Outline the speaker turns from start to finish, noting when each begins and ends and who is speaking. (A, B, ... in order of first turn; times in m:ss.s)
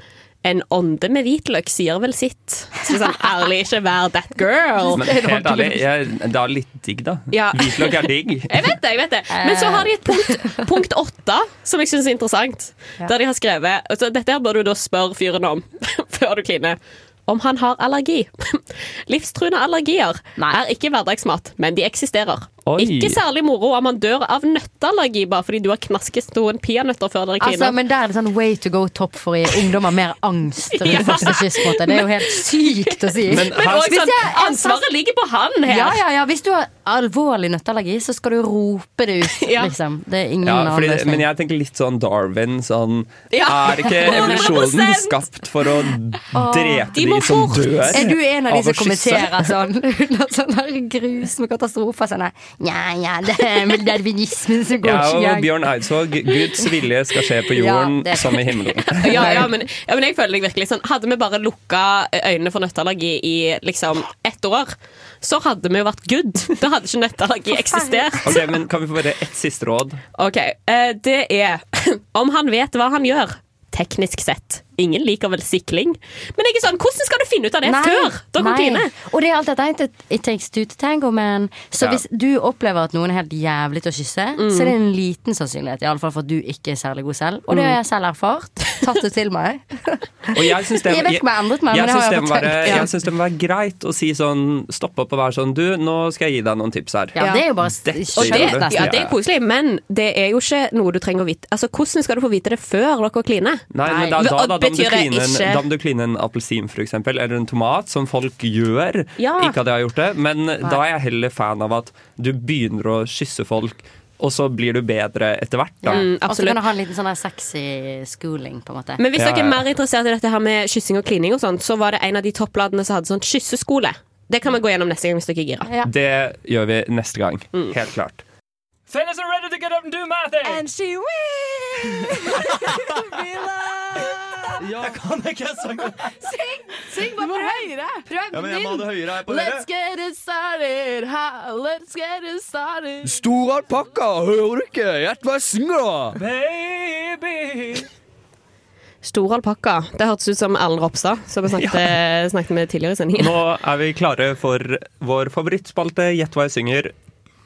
0:00.4-0:05.8 A
0:04.9-0:08.5 B
0:07.3-0:27.7 A
0:09.3-0:10.6 C
0:22.6-0:23.2 B
0:27.4-0:34.9 C
0:30.7-0:36.0 A
0:33.3-0:33.9 B
0:35.6-0:41.2 C
0:39.4-0:39.7 A
0:40.4-0:49.5 B
0:43.3-0:45.2 A
0:46.3-0:46.9 C
0:46.9-0:48.0 A
0:47.9-0:55.5 C
0:54.8-0:59.4 B
0:57.5-0:59.6 C
0:59.0-1:08.4 A
1:07.5-1:08.3 C
1:08.2-1:10.0 B
1:10.1-1:18.9 A
1:17.6-1:32.9 C
1:24.4-1:24.7 A
1:30.3-1:39.0 B
1:37.2-1:39.1 C
1:37.2-1:37.5 A
1:38.1-1:45.6 A
1:43.7-1:56.0 B
1:49.2-1:49.5 A
1:55.8-1:59.0 C
1:55.9-1:56.6 A
1:59.0-2:05.7 A
1:59.2-1:59.6 B
2:05.6-2:05.9 C
2:05.8-2:08.2 B
2:08.9-2:10.6 D
2:10.4-2:14.8 E
2:14.6-2:15.9 D
2:16.2-2:23.2 E
2:18.3-2:19.6 D
2:23.0-2:27.8 D
2:29.0-2:33.4 A
2:31.6-2:32.0 B
2:33.2-2:36.9 B